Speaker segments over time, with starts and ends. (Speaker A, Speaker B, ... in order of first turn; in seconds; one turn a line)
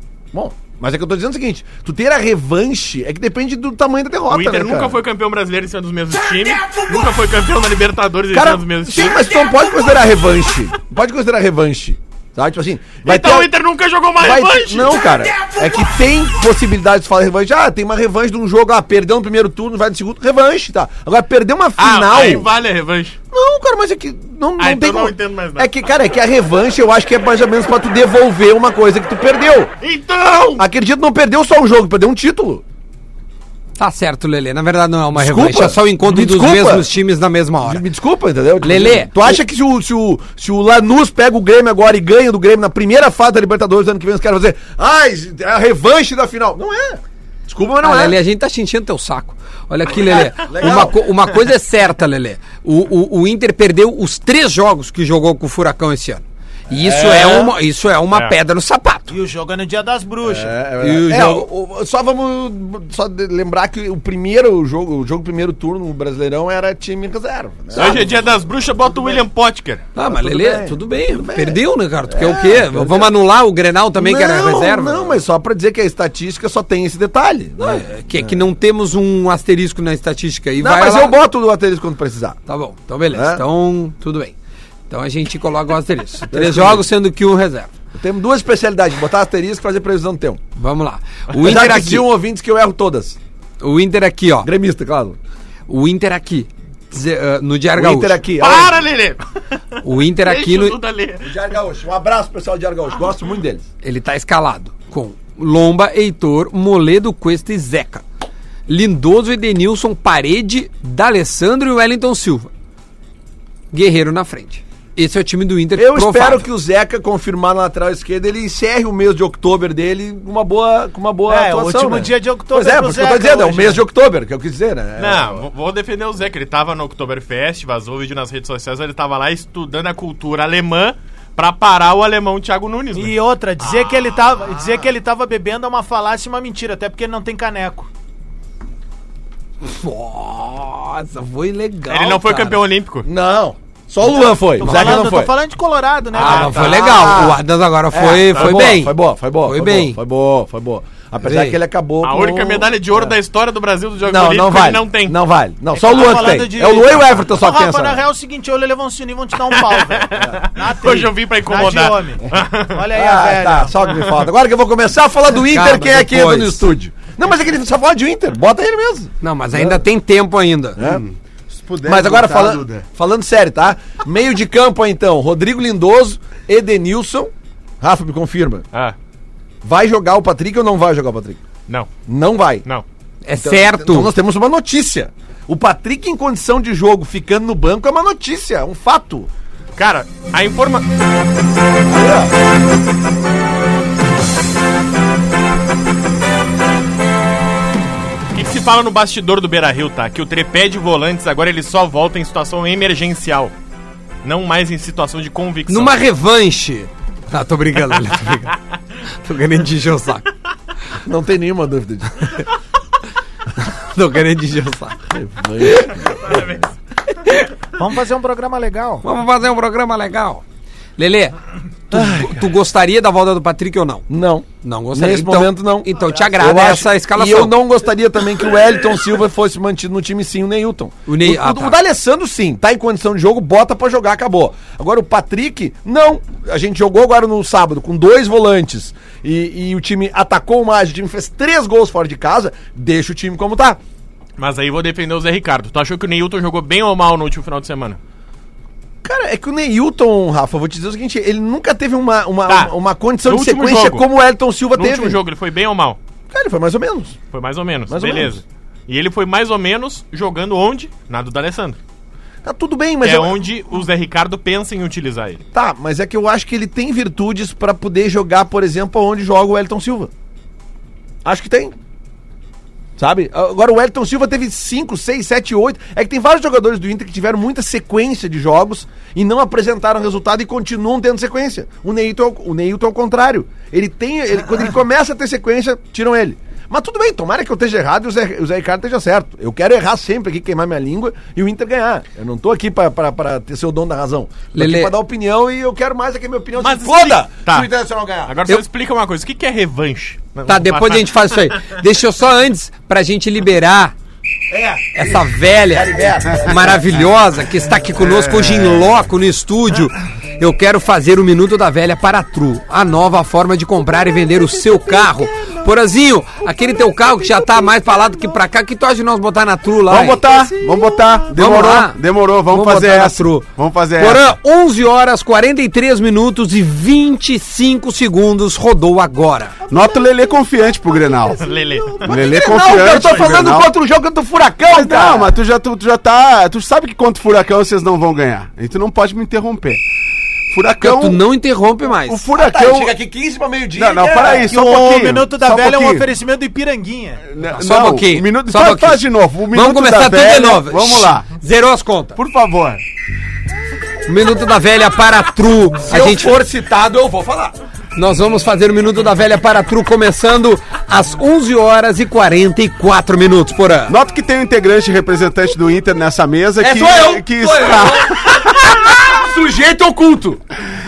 Speaker A: 0.3-5.0
Speaker B: 4.3-9.2
Speaker A: 8.3-13.5
Speaker B: 13.0-15.0
Speaker A: 14.2-22.5
Speaker B: 21.8-23.2
Speaker A: 23.3-29.7
Speaker B: 24.6-25.7
Speaker B: 29.8-30.6
Speaker A: 30.6-32.6
Speaker C: 33.8-37.8
Speaker A: 35.1-36.9
Speaker A: 37.6-48.2
Speaker C: 38.6-39.4
Speaker C: 47.8-59.1
Speaker A: 49.9-51.1
Speaker A: 56.7-57.6
Speaker B: 58.1-58.4
Speaker D: 59.1-60.5
Speaker A: 60.2-68.3
Speaker C: 60.8-61.5
Speaker B: 67.7-69.9
Speaker A: 68.9-69.2
Speaker C: 69.9-75.2
Speaker A: 70.0-73.1
Speaker A: 73.9-78.5
Speaker C: 77.6-81.2
Speaker A: 80.6-82.4
Speaker C: 82.5-84.3
Speaker A: 83.1-83.4
Speaker C: 84.9-87.7
Speaker A: 86.3-86.9
Speaker A: 88.0-90.4
Speaker C: 90.6-92.1
Speaker A: 91.3-93.2
Speaker C: 93.6-94.5
Speaker A: 94.4-95.2
Speaker C: 95.7-98.2
Speaker A: 97.7-98.8
Speaker B: 98.4-101.3
Speaker C: 99.8-100.8
Speaker A: 101.2-103.6
Speaker C: 103.8-108.0
Speaker C: 108.7-112.5
Speaker C: 113.7-116.4
Speaker A: 115.7-125.5
Speaker D: 121.3-123.8
Speaker B: 125.0-134.1
Speaker D: 132.9-137.9
Speaker C: 139.6-142.6
Speaker B: 141.9-143.1
Speaker A: 143.0-145.3
Speaker D: 144.2-147.0
Speaker C: 144.7-145.0
Speaker B: 146.1-147.2
Speaker C: 146.1-150.0
Speaker A: 146.6-153.1
Speaker B: 148.3-148.7
Speaker C: 151.2-151.6
Speaker B: 152.0-155.2
Speaker A: 154.0-158.0
Speaker D: 155.7-163.8
Speaker B: 159.5-162.8
Speaker A: 162.9-169.8
Speaker C: 165.4-166.6
Speaker C: 169.2-170.8
Speaker A: 170.8-171.0
Speaker E: 170.8-172.9
Speaker A: 171.8-178.6
Speaker A: 179.6-181.4
Speaker A: 182.1-182.7
Speaker C: 183.2-184.1
Speaker A: 183.4-189.3
Speaker B: 189.8-190.9
Speaker A: 191.9-192.3
Speaker B: 198.3-203.5
Speaker B: 204.2-206.0
Speaker C: 205.7-210.3
Speaker A: 211.0-212.4
Speaker C: 213.6-215.0
Speaker A: 215.1-216.4
Speaker B: 216.1-216.7
Speaker D: 217.8-219.1
Speaker C: 219.0-220.4
Speaker C: 221.0-221.4
Speaker C: 221.9-224.1
Speaker A: 221.9-222.5
Speaker A: 224.1-243.8
Speaker C: 224.6-227.6
Speaker C: 231.1-231.8
Speaker B: 244.4-248.0
Speaker A: 249.0-255.2
Speaker B: 252.5-252.7
Speaker B: 253.2-254.1
Speaker B: 254.7-256.0
Speaker A: 256.3-257.2
Speaker B: 257.3-261.8
Speaker A: 257.9-258.4
Speaker A: 262.4-263.4
Speaker B: 263.0-265.4
Speaker A: 265.5-270.1
Speaker A: 271.2-271.7
Speaker A: 273.0-298.4
Speaker C: 294.5-294.9
Speaker B: 296.6-297.7
Speaker B: 298.2-301.7
Speaker C: 300.5-303.9
Speaker A: 304.5-307.0
Speaker C: 304.9-320.2
Speaker D: 316.8-318.4
Speaker E: 319.9-324.3
Speaker D: 320.2-321.3
Speaker C: 321.3-329.6
Speaker D: 329.7-330.3
Speaker E: 329.7-331.4
Speaker D: 330.9-332.2
Speaker B: 331.4-332.1
Speaker E: 332.0-333.7
Speaker A: 332.1-335.3
Speaker E: 334.7-339.8
Speaker E: 340.5-341.2
Speaker C: 340.8-342.3
Speaker E: 341.9-342.9
Speaker A: 342.4-344.5
Speaker E: 343.7-346.1
Speaker D: 344.3-347.2
Speaker E: 347.3-351.4
Speaker C: 347.6-352.2
Speaker E: 352.1-352.8
Speaker C: 354.1-356.4
Speaker A: 355.9-357.6
Speaker C: 357.9-363.9
Speaker E: 363.9-368.9
Speaker A: 366.6-370.4